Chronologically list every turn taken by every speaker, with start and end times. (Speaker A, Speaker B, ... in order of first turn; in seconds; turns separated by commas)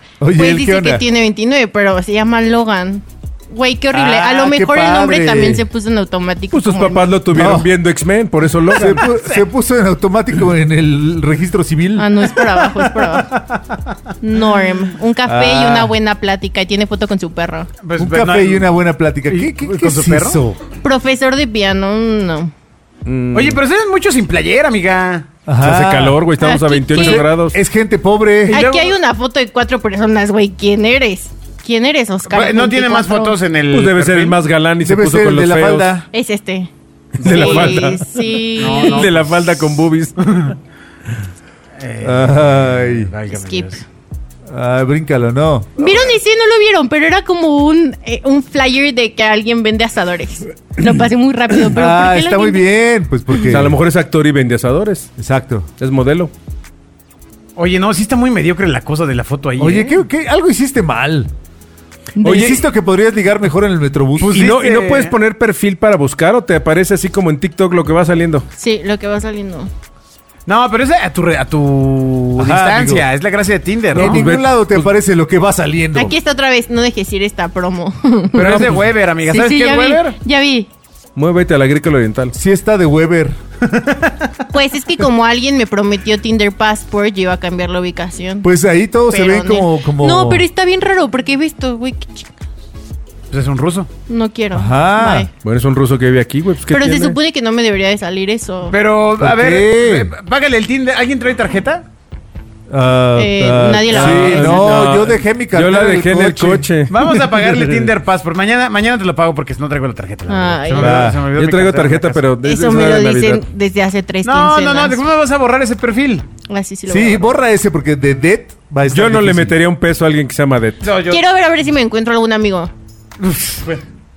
Speaker A: 0.2-1.0, Speaker B: 0.3-7.2, Speaker A: 3.9-5.6, Speaker C: 6.5-9.1, Speaker A: 7.3-7.7, Speaker A: 8.7-12.3, Speaker D: 8.8-9.4, Speaker B: 11.9-13.3, Speaker D: 12.7-13.8, Speaker B: 14.2-17.7, Speaker A: 15.2-15.9, Speaker D: 17.8-18.7, Speaker A: 18.0-20.6, Speaker D: 19.3-20.4, Speaker B: 20.8-22.5, Speaker C: 23.1-23.6, Speaker D: 23.3-25.3, Speaker A: 25.4-26.2, Speaker C: 25.6-27.6, Speaker B: 26.4-27.3, Speaker A: 26.9-28.6, Speaker B: 28.5-33.3, Speaker D: 28.5-29.0, Speaker D: 32.3-34.4, Speaker C: 33.7-35.9, Speaker A: 34.8-36.1, Speaker B: 36.1-36.7, Speaker C: 37.2-40.5, Speaker D: 37.2-37.8, Speaker B: 37.2-39.1, Speaker D: 38.6-40.5, Speaker D: 41.8-43.9, Speaker A: 42.0-43.1, Speaker B: 43.3-43.7, Speaker A: 44.5-45.7, Speaker B: 45.8-52.6, Speaker A: 51.6-53.8, Speaker C: 53.5-55.1, Speaker A: 55.2-55.7, Speaker C: 55.8-56.3, Speaker D: 57.5-60.0, Speaker A: 59.6-61.3, Speaker B: 62.2-62.5, Speaker A: 62.2-64.5, Speaker D: 62.2-62.5, Speaker C: 62.3-62.5, Speaker D: 64.2-65.1, Speaker C: 64.3-68.5, Speaker B: 68.6-69.7, Speaker D: 70.5-74.2, Speaker A: 72.3-73.0, Speaker A: 73.9-76.2, Speaker C: 73.9-74.9, Speaker B: 75.9-78.4, Speaker D: 78.3-80.2, Speaker A: 78.4-78.8, Speaker B: 79.2-80.7, Speaker C: 81.2-82.3, Speaker A: 82.3-83.3, Speaker D: 83.7-84.3, Speaker B: 84.5-88.5, Speaker A: 88.4-90.5, Speaker B: 89.1-92.4, Speaker D: 93.3-93.9, Speaker B: 94.1-95.3, Speaker A: 94.5-95.3, Speaker C: 95.4-97.2, Speaker B: 96.7-98.8, Speaker D: 98.7-101.8, Speaker A: 99.2-100.1, Speaker A: 102.7-106.7, Speaker B: 103.2-104.7, Speaker C: 103.9-107.9, Speaker D: 106.9-112.2, Speaker B: 110.3-111.0, Speaker A: 110.8-111.3, Speaker C: 111.3-113.4, Speaker B: 112.4-115.0, Speaker D: 114.2-116.2, Speaker B: 116.5-117.3, Speaker A: 116.9-119.6, Speaker C: 118.9-120.9, Speaker D: 120.8-121.2, Speaker B: 121.1-122.7, Speaker D: 123.2-123.8